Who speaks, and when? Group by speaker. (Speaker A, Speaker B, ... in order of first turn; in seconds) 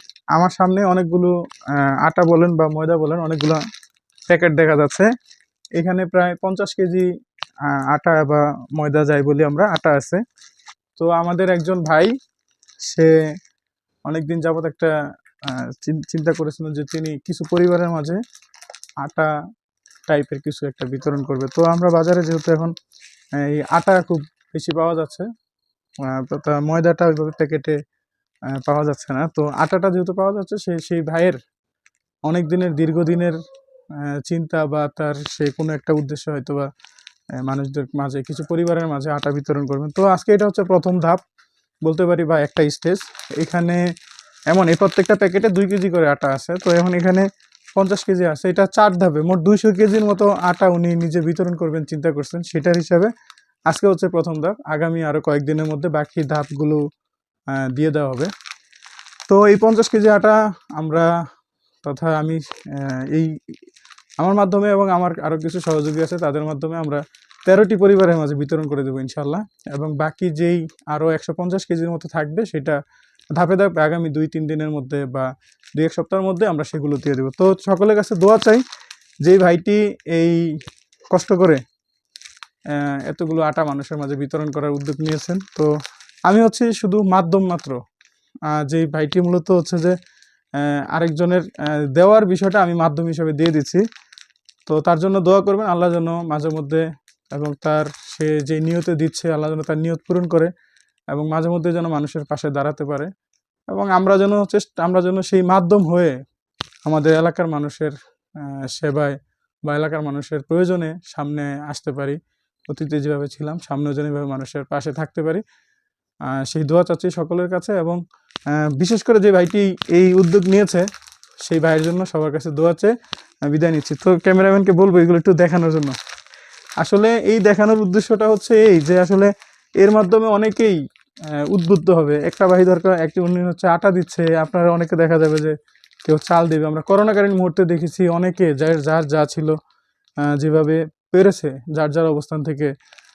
Speaker A: 0.3-3.6, 4.3-5.1, 5.8-7.1, 7.7-10.2, 11.0-12.1, 12.9-13.2, 14.1-14.9, 15.4-18.2, 19.0-19.3, 20.1-22.7, 23.4-25.3, 26.0-27.8, 28.5-31.4, 32.3-33.4, 34.0-36.7, 37.4-41.2, 41.9-43.8, 44.5-53.1, 53.7-56.8, 57.5-58.3, 59.3-61.1, 61.9-63.4, 64.2-72.8, 73.3-78.6, 79.2-81.6, 82.7-85.7, 86.3-87.8, 88.5-90.0, 90.5-93.8, 94.7-100.5, 101.1-103.1, 103.7-106.2, 106.8-115.4, 116.3-120.9, 121.5-122.9, 123.5-126.0, 126.8-130.8, 131.3-139.6, 140.2-142.7